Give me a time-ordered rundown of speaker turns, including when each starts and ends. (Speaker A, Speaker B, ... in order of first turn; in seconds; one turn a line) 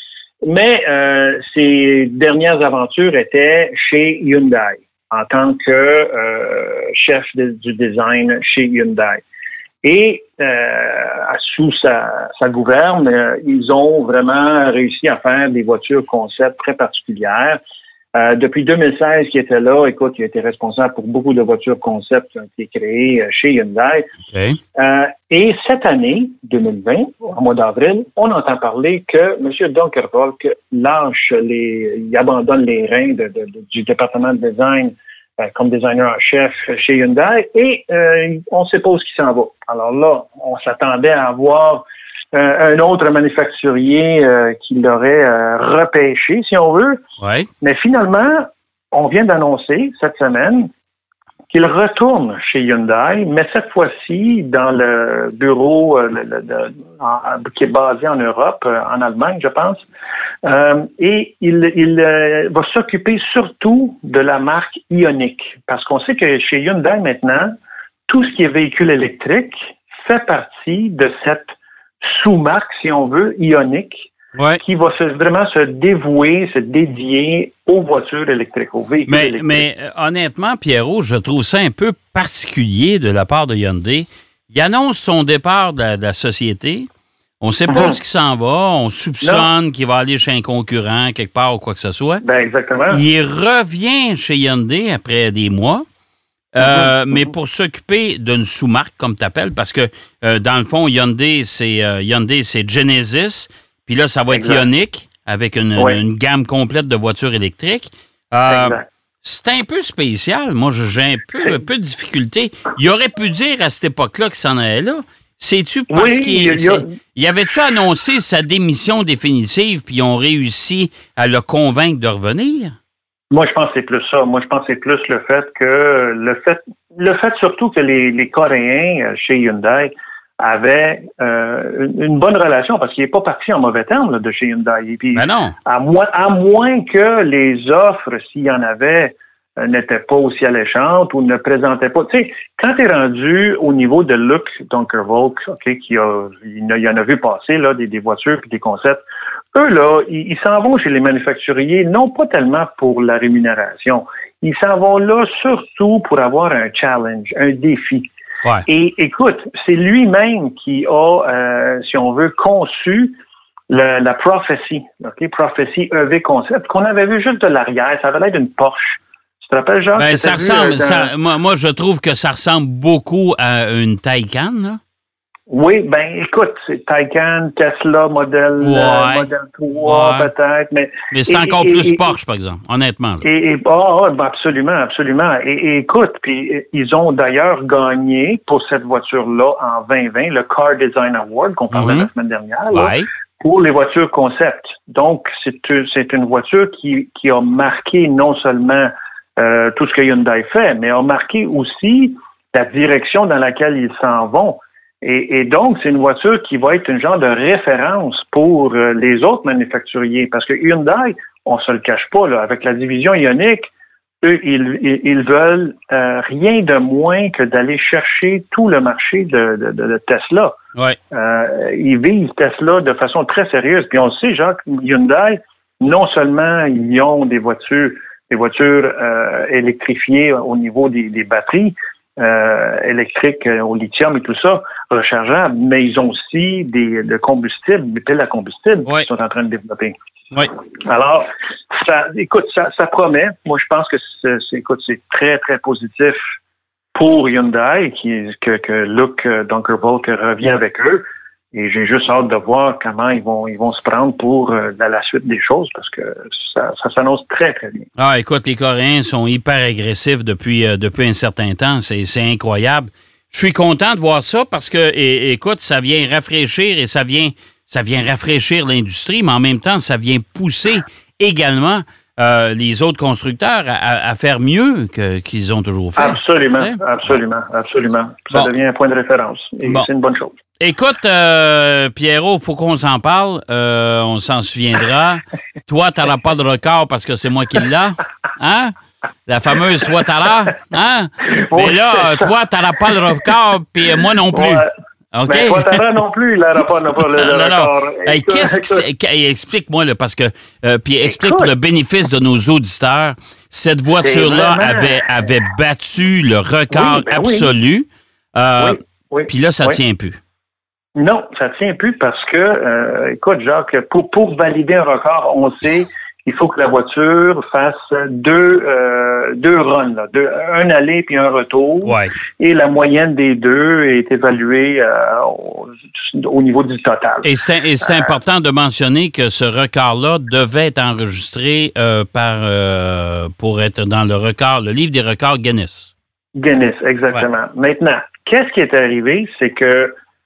Speaker A: 0.4-9.2
Speaker A: 9.8-17.6
Speaker A: 18.1-24.1
Speaker B: 24.3-24.6
Speaker A: 24.8-47.0
Speaker B: 47.2-47.5
Speaker A: 47.6-50.7
Speaker A: 51.5-59.9
Speaker A: 60.4-67.5
Speaker A: 68.1-74.1
Speaker B: 74.4-74.6
Speaker A: 74.6-79.7
Speaker B: 79.1-86.9
Speaker B: 87.4-92.2
Speaker A: 87.7-88.0
Speaker A: 89.2-89.5
Speaker A: 92.2-93.0
Speaker B: 92.9-95.8
Speaker B: 96.5-122.7
Speaker A: 96.6-97.3
Speaker A: 104.3-104.7
Speaker A: 105.8-106.0
Speaker A: 108.5-108.9
Speaker A: 115.9-116.9
Speaker A: 123.3-149.0
Speaker B: 135.1-135.5
Speaker A: 149.5-158.1
Speaker A: 158.7-163.2
Speaker A: 163.7-171.1
Speaker B: 170.0-174.8
Speaker A: 175.5-182.1
Speaker B: 178.6-180.3
Speaker B: 181.1-183.2
Speaker A: 183.2-213.7
Speaker B: 191.7-192.1
Speaker B: 192.7-193.1
Speaker A: 214.2-220.6
Speaker A: 221.1-239.9
Speaker A: 240.8-246.2
Speaker A: 246.9-257.9
Speaker B: 258.0-277.2
Speaker A: 276.0-280.4
Speaker B: 280.6-288.7
Speaker B: 289.3-295.9
Speaker A: 291.3-292.4
Speaker A: 294.0-294.7
Speaker A: 295.3-298.9
Speaker B: 297.0-310.2
Speaker A: 301.0-301.5
Speaker A: 304.0-305.1
Speaker A: 306.7-307.5
Speaker A: 308.6-309.8
Speaker A: 311.0-327.3
Speaker B: 321.8-322.2
Speaker B: 327.2-335.9
Speaker A: 327.8-328.2
Speaker A: 336.4-339.9